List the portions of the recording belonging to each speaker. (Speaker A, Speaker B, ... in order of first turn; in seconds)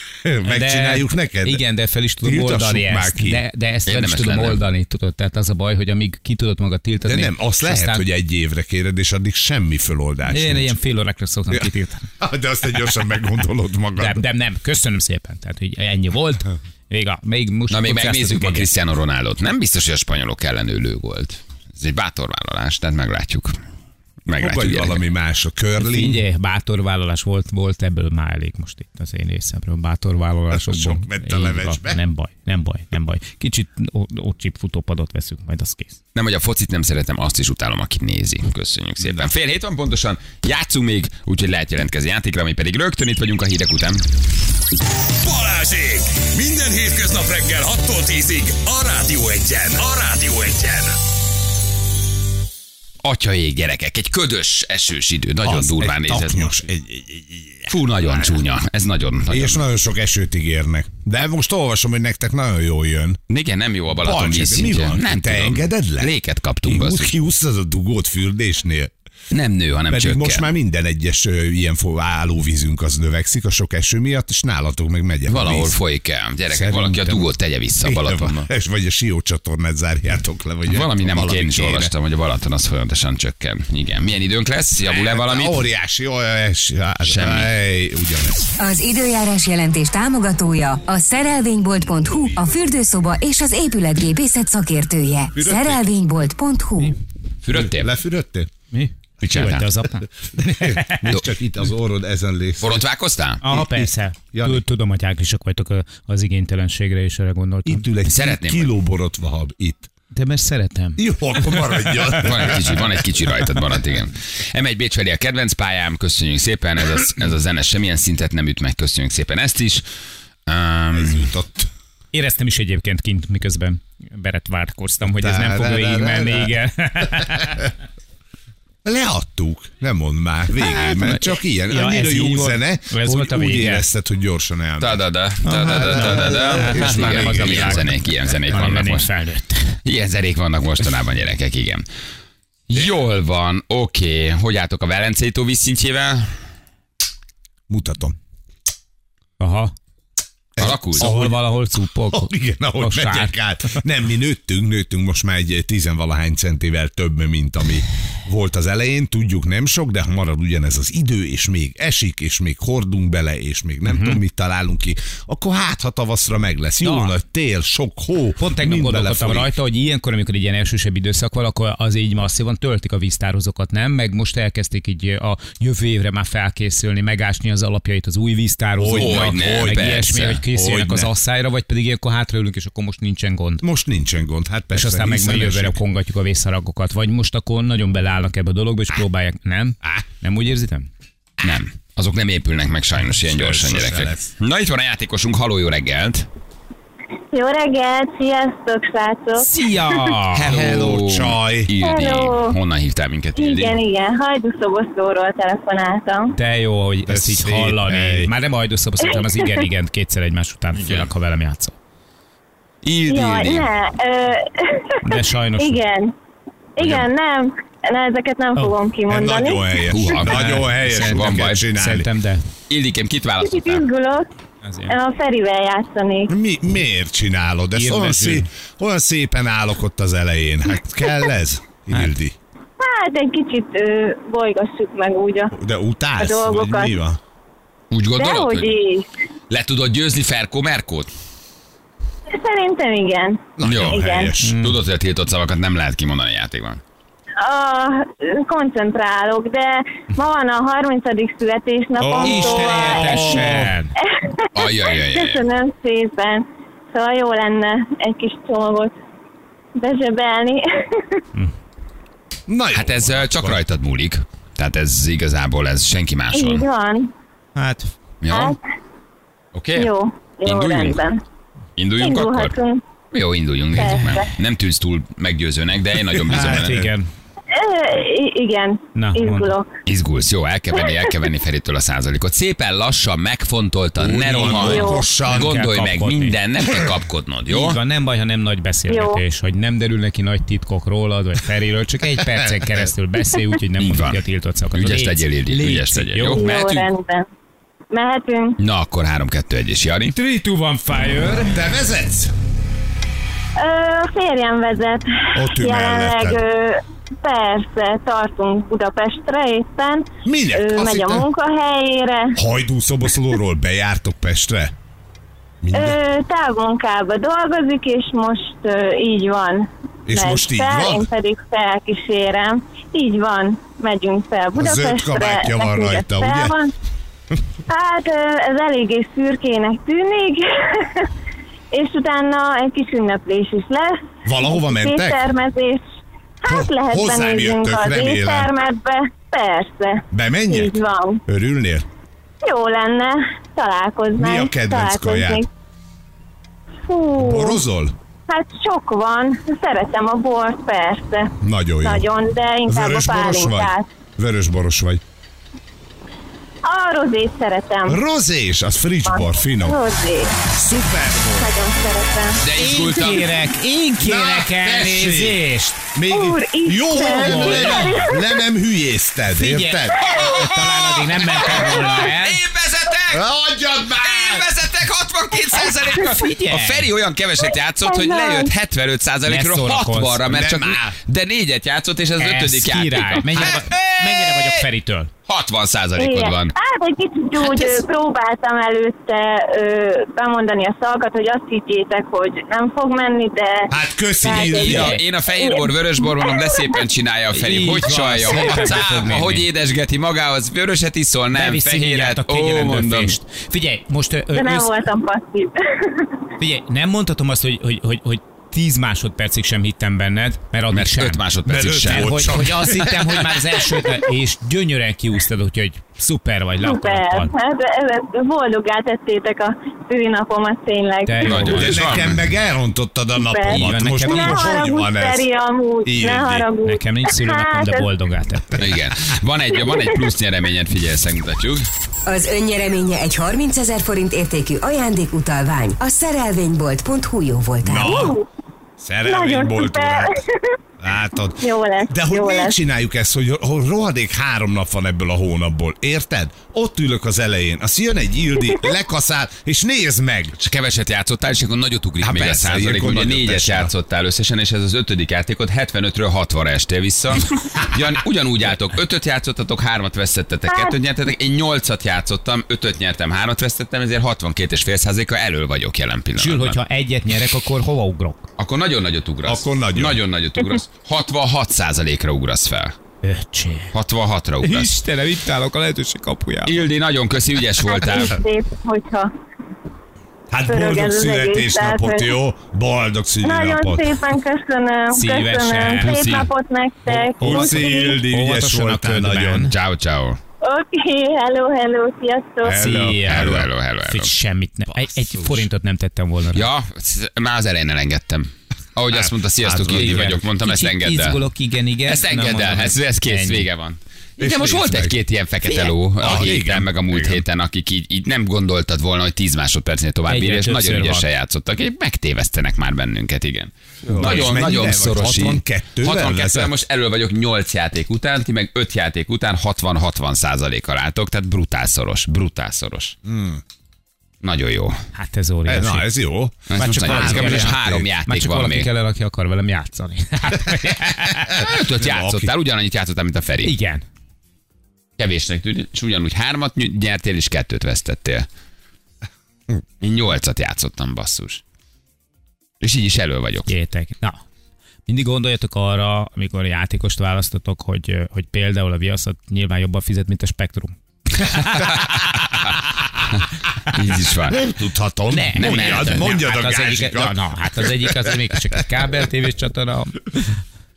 Speaker A: 0.2-1.6, 2.2-3.4, 7.1-10.7, 11.5-14.2, 24.3-26.2, 30.5-32.0, 39.0-39.3, 55.4-58.3, 59.3-63.2, 64.0-66.1, 66.7-68.9, 69.9-75.8, 76.5-77.3, 77.8-81.9, 84.8-88.4, 95.3-95.8, 97.5-98.5, 100.4-102.8, 103.4-104.6, 107.7-109.9, 111.0-113.0, 120.9-121.7, 125.2-127.1, 128.8-138.0, 147.7-148.2, 150.6-151.4, 152.1-169.5, 178.8-181.1, 183.6-185.8, 193.2-194.3, 200.4-201.7, 207.1-208.3, 219.1-222.1, 226.3-232.3, 235.5-237.2, 243.6-244.6, 252.0-253.8, 262.5-263.6, 276.1-276.9, 284.0-285.6, 292.3-292.7, 301.5-302.3, 305.4-306.4, 310.2-311.3, 312.4-314.7, 315.6-316.0, 320.1-321.1, 324.5-326.6, 334.2-335.3, 336.4-338.5, 340.1-341.9, 344.2-345.5, 347.2-347.9, 351.4-352.1, 352.7-355.0, 357.9-359.8, 360.6-361.5, 364.0-365.4, 365.9-370.1, 373.1-374.5, 380.3-381.0, 393.7-395.0, 411.4-413.0, 421.5-425.3, 425.9-426.5, 437.6-438.2, 438.8-440.2, 440.8-450.4, 452.0-453.7, 469.2-470.0, 480.3-484.0, 486.9-489.5, 492.4-493.5, 495.0-495.4, 498.9-500.2, 504.2-507.2, 513.9-516.5, 523.0-523.4, 525.5-527.9, 531.4-532.3, 554.2-558.6
Speaker B: 0.5-8.0, 10.3-12.1, 14.0-18.7, 25.8-36.0, 98.7-101.1, 103.4-107.9, 110.1-111.9, 122.1-127.7, 130.6-133.9, 135.5-139.8, 149.4-149.7, 151.0-153.8, 163.8-164.2, 166.8-167.1, 168.4-183.6, 184.7-190.9, 199.4-200.5, 206.3-211.8, 215.0-215.8, 220.2-222.4, 224.6-225.0, 227.7-228.5, 244.4-244.8, 252.2-253.9, 267.6-267.9, 276.4-277.1, 278.9-279.5, 284.5-286.4, 287.5-296.9, 300.1-301.6, 362.5-365.9, 366.9-368.1, 369.3-372.4, 375.9-376.9, 379.3-380.2, 382.2-385.1, 394.6-394.9, 397.3-399.5, 401.3-404.8, 406.4-411.2, 411.8-417.3, 421.1-421.9, 423.5-424.6, 426.6-428.6, 466.2-468.3, 473.0-473.7, 474.4-476.6, 484.9-486.3, 487.2-489.5, 492.5-496.5, 499.7-503.5, 510.1-511.0, 525.0-525.9, 526.5-531.5, 533.4-533.8, 543.5-544.2, 544.9-551.9, 555.1-560.4
Speaker C: 3.9-4.6, 17.7-23.6, 24.3-25.0, 36.1-44.0, 53.0-56.5, 57.7-59.6, 63.3-67.1, 69.3-70.5, 75.3-78.5, 80.7-85.6, 87.0-87.5, 97.4-97.9, 99.2-99.7, 102.6-103.4, 108.1-108.8, 112.2-119.8, 120.5-121.3, 134.8-139.1, 139.8-141.8, 142.7-146.4, 150.6-151.1, 178.9-180.4, 191.4-196.3, 200.3-203.8, 210.8-211.1, 212.8-213.7, 216.8-217.1, 219.9-221.6, 222.7-223.9, 237.9-238.8, 239.5-241.1, 243.6-246.8, 254.6-255.4, 262.7-266.7, 268.2-268.6, 269.5-269.9, 270.4-271.0, 271.8-272.6, 273.1-276.8, 279.9-287.8, 293.8-294.2, 294.7-296.8, 298.6-300.1, 362.4-363.3, 370.1-373.3, 373.9-384.7, 385.3-386.5, 387.4-387.9, 394.3-403.1, 410.7-412.4, 421.2-422.3, 428.6-431.6, 450.4-466.6, 468.4-472.8, 473.7-474.7, 476.4-478.2, 485.8-486.3, 489.5-490.2, 493.1-494.1, 496.3-501.2, 501.9-522.9, 524.2-524.8, 526.5-528.7, 531.4-533.5, 535.0-538.3, 539.8-541.4, 542.6-543.5, 553.1-554.5, 555.4-556.2
Speaker D: 45.2-51.0
Speaker E: 88.6-97.0, 432.1-438.1
Speaker F: 197.3-199.5, 201.8-202.5, 203.4-206.3, 209.1-209.5, 213.1-216.1, 216.8-219.8, 223.4-224.3, 224.9-226.3, 232.8-235.5, 236.2-236.9, 238.2-239.1, 242.3-244.3, 247.4-253.4, 254.0-258.9, 259.8-261.2, 266.3-267.1, 268.3-268.6, 269.8-271.2, 272.0-272.8, 273.8-274.3, 277.5-279.7, 284.4-285.0, 288.9-289.2, 296.3-297.3, 297.9-298.6, 303.6-312.4, 315.7-326.7, 327.7-331.1, 331.7-335.8, 336.4-341.2, 342.4-345.5, 346.9-347.6, 348.3-353.9, 356.6-358.0, 359.1-360.3, 361.3-362.4, 366.1-368.4, 370.0-370.3, 377.8-378.5, 386.0-396.8, 404.4-406.1, 416.6-421.5, 423.2-427.9, 437.7-438.2, 439.1-440.6, 441.4-442.6, 477.6-479.1, 480.5-482.1, 483.2-488.0, 490.4-492.6